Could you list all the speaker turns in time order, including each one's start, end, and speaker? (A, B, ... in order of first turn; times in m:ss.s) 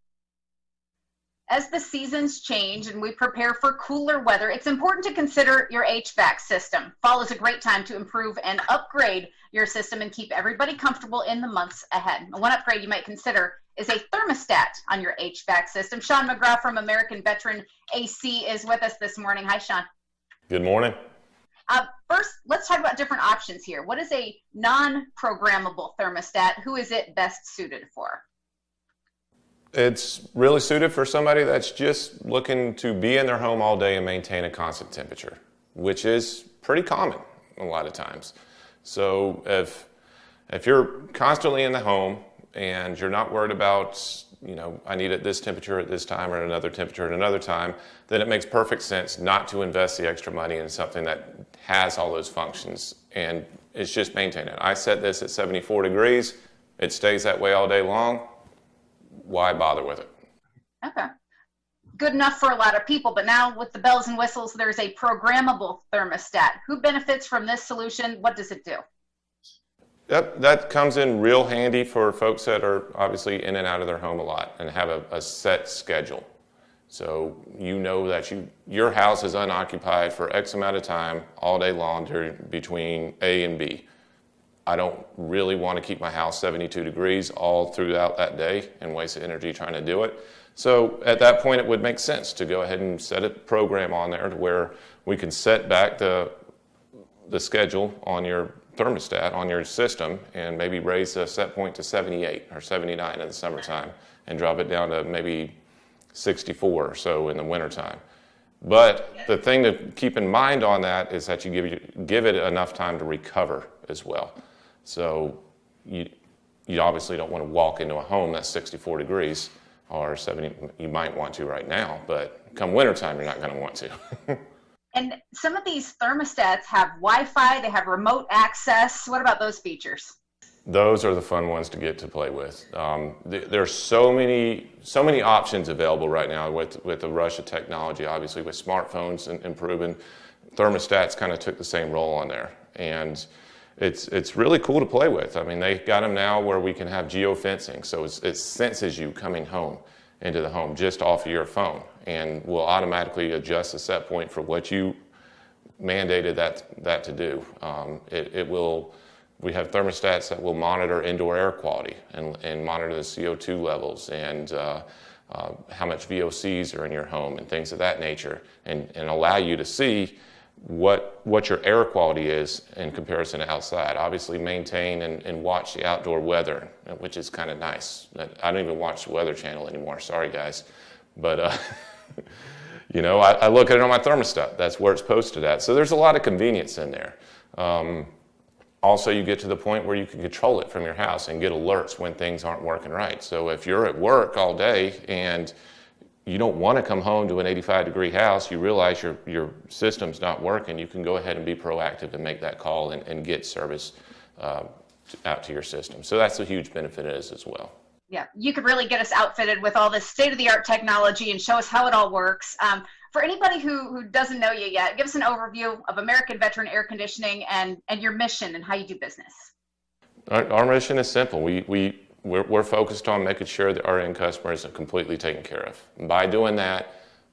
0:01.5-0:19.8 A
0:20.5-0:21.0 B
0:21.7-0:28.2 A
0:29.7-0:39.9 B
0:40.5-0:58.3 B
0:59.2-1:00.1 B
1:00.8-1:01.1 A
1:02.0-1:08.8 A
1:10.1-1:16.2 B
1:16.9-1:23.8 B
1:24.6-1:36.3 B
1:37.3-1:45.6 B
1:46.1-1:48.0 B
1:48.6-1:56.1 B
1:56.7-2:04.4 B
2:04.9-2:10.1 A
2:10.6-2:20.0 B
2:20.5-2:23.3 B
2:23.8-2:35.0 B
2:35.8-3:02.2 B
3:02.9-3:08.1 B
3:08.8-3:15.5 B
3:16.2-3:24.7 B
3:25.2-3:27.7 B
3:28.1-3:39.5 A
3:40.3-3:47.0 B